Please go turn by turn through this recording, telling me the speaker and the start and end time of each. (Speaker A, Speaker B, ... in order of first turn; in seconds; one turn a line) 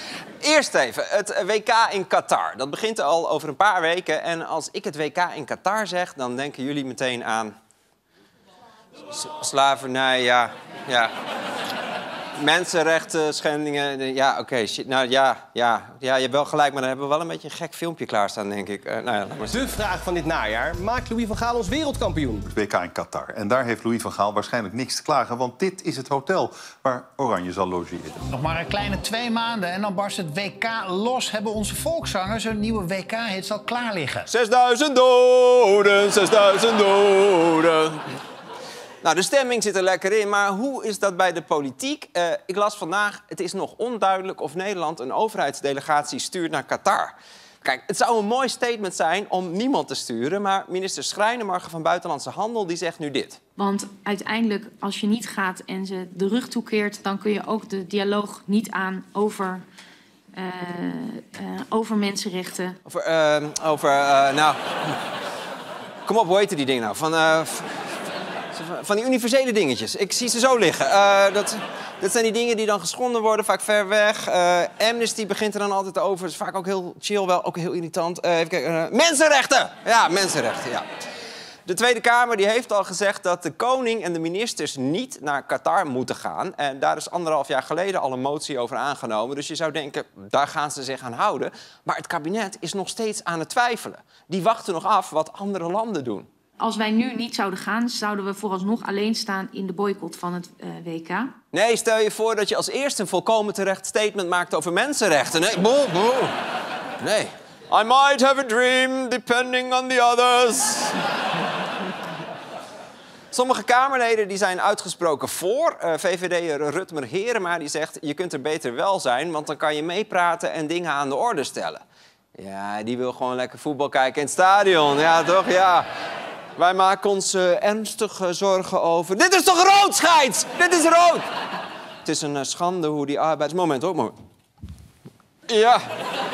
Speaker A: 0.4-7.5
Speaker A: 9.1-11.1
Speaker A: 12.4-19.8
Speaker B: 19.5-22.5
Speaker C: 22.5-28.2
Speaker D: 28.3-34.3
Speaker A: 34.3-38.0
Speaker A: 39.0-53.4
Speaker E: 53.6-59.6
Speaker E: 60.4-62.8
Speaker A: 62.9-65.0
Speaker A: 66.1-67.7
Speaker A: 68.5-80.8
Speaker A: 81.7-96.3
Speaker E: 96.6-101.3
Speaker A: 101.5-106.3
Speaker A: 107.0-111.0
Speaker A: 113.3-121.8
Speaker A: 122.4-125.9
Speaker A: 126.6-131.2
Speaker A: 132.1-134.1
Speaker A: 135.5-135.8